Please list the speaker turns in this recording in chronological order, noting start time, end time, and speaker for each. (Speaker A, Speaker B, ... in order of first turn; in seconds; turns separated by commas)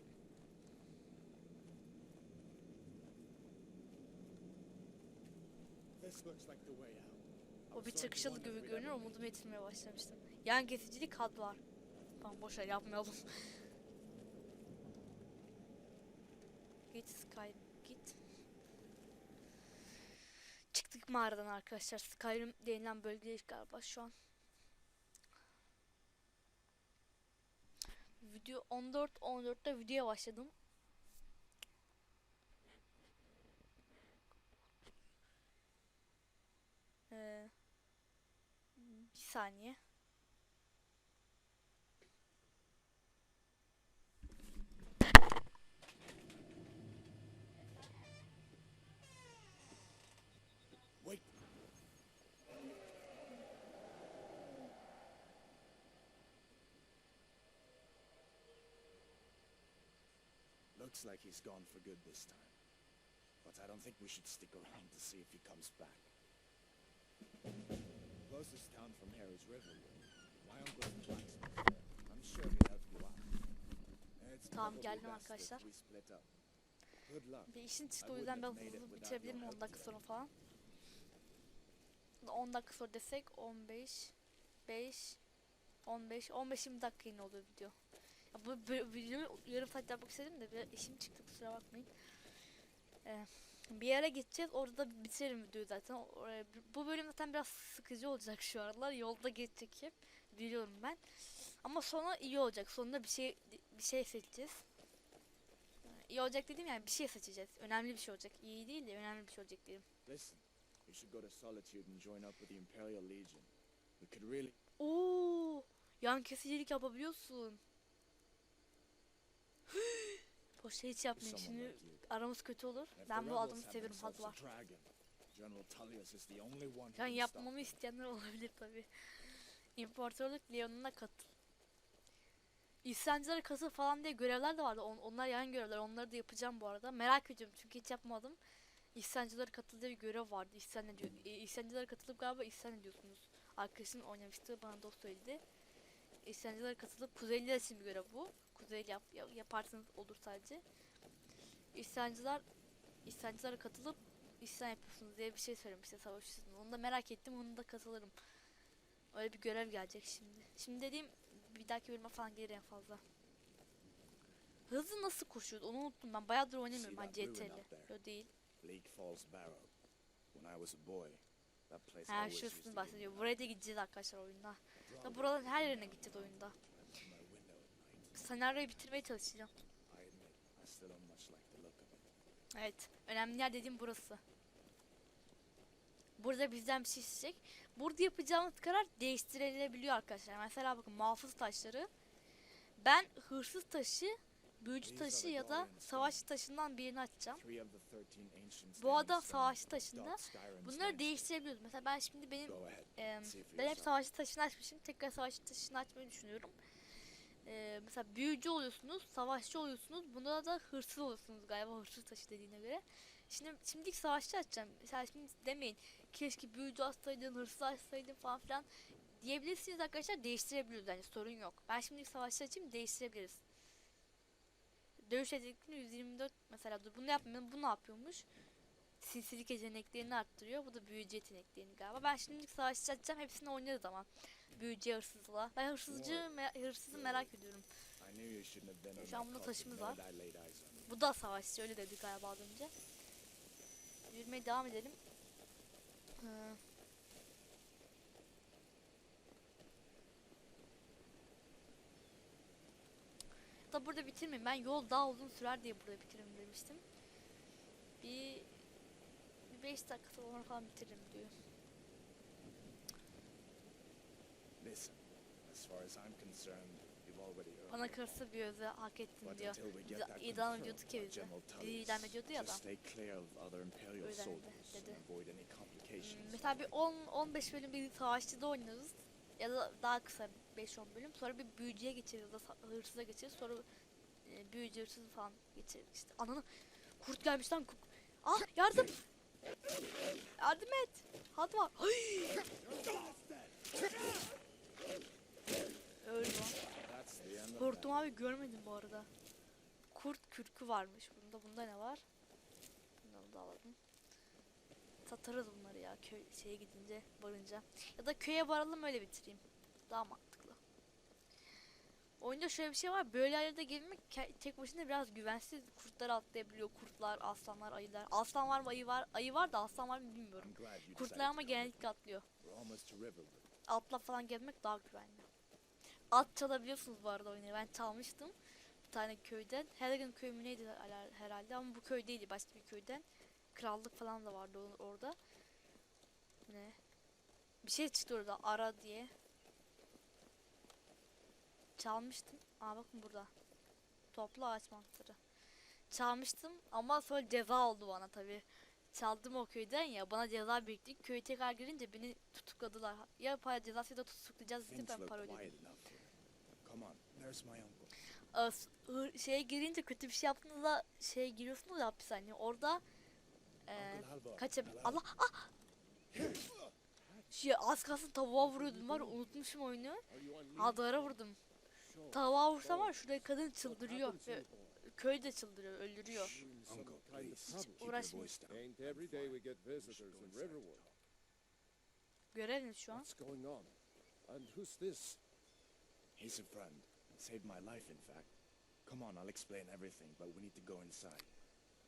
Speaker A: 6.0-9.3, Speaker B: 7.7-11.6, Speaker B: 12.2-13.5, Speaker B: 16.9-18.2, Speaker B: 20.7-24.1, Speaker B: 28.2-30.5, Speaker B: 37.1-37.5, Speaker B: 38.8-39.8, Speaker A: 51.0-51.3, Speaker A: 60.8-62.6, Speaker A: 63.4-66.1, Speaker A: 68.2-73.3, Speaker A: 74.2-76.3, Speaker B: 74.5-75.7, Speaker A: 77.0-80.0, Speaker B: 77.5-80.3, Speaker B: 82.2-84.1, Speaker B: 84.7-85.2, Speaker B: 85.8-87.8, Speaker B: 88.3-91.9, Speaker B: 93.0-104.7, Speaker B: 105.8-109.9, Speaker A: 110.0-114.6, Speaker B: 114.8-117.6, Speaker B: 119.7-124.4, Speaker A: 121.2-122.1, Speaker A: 122.9-127.8, Speaker B: 127.0-131.3, Speaker B: 132.8-138.4, Speaker B: 138.9-145.4, Speaker B: 146.2-150.6, Speaker B: 151.7-152.4, Speaker B: 153.1-158.2, Speaker B: 159.1-163.0, Speaker B: 164.7-168.3, Speaker A: 166.7-167.9, Speaker A: 168.6-169.7, Speaker A: 170.3-173.5, Speaker B: 172.1-176.6, Speaker A: 174.9-179.1, Speaker B: 178.2-179.5, Speaker A: 179.9-182.1, Speaker B: 182.6-184.2, Speaker B: 186.2-191.9, Speaker B: 192.8-197.4, Speaker A: 194.8-196.3, Speaker A: 197.3-201.3, Speaker B: 198.8-206.6, Speaker A: 202.4-203.9, Speaker B: 207.4-223.4, Speaker B: 225.0-228.3, Speaker B: 229.0-237.7, Speaker A: 235.9-237.3, Speaker A: 238.0-240.9, Speaker B: 239.0-240.0, Speaker B: 240.9-242.7, Speaker B: 244.1-245.0, Speaker B: 246.2-246.6, Speaker B: 253.7-256.8, Speaker B: 258.0-258.5, Speaker B: 259.5-261.4, Speaker A: 264.6-268.2, Speaker B: 267.7-272.6, Speaker A: 269.2-276.6, Speaker B: 274.0-275.0, Speaker B: 276.0-283.6, Speaker B: 284.2-286.5, Speaker B: 287.0-289.0, Speaker B: 290.4-292.5, Speaker A: 292.6-293.8, Speaker B: 296.0-296.6, Speaker A: 296.8-298.1, Speaker B: 297.5-299.1, Speaker B: 299.9-302.1, Speaker B: 303.0-303.8, Speaker B: 305.1-310.6, Speaker B: 312.2-322.3, Speaker A: 320.4-321.9, Speaker A: 322.4-323.5, Speaker B: 323.7-325.3, Speaker B: 326.1-328.4, Speaker B: 328.9-335.2, Speaker B: 336.5-336.8, Speaker B: 337.6-339.1, Speaker B: 341.8-343.3, Speaker B: 344.1-345.2, Speaker B: 345.9-355.5, Speaker A: 354.7-357.9, Speaker B: 358.3-362.8, Speaker B: 363.7-365.5, Speaker A: 363.8-365.0, Speaker C: 366.3-367.5, Speaker B: 367.3-371.4, Speaker C: 368.4-369.5, Speaker C: 370.1-371.2, Speaker C: 371.7-374.9, Speaker B: 372.1-376.4, Speaker C: 376.1-380.9, Speaker A: 376.1-381.0, Speaker B: 377.8-378.3, Speaker B: 382.3-383.1, Speaker C: 382.9-385.2, Speaker A: 386.2-388.3, Speaker A: 388.9-391.3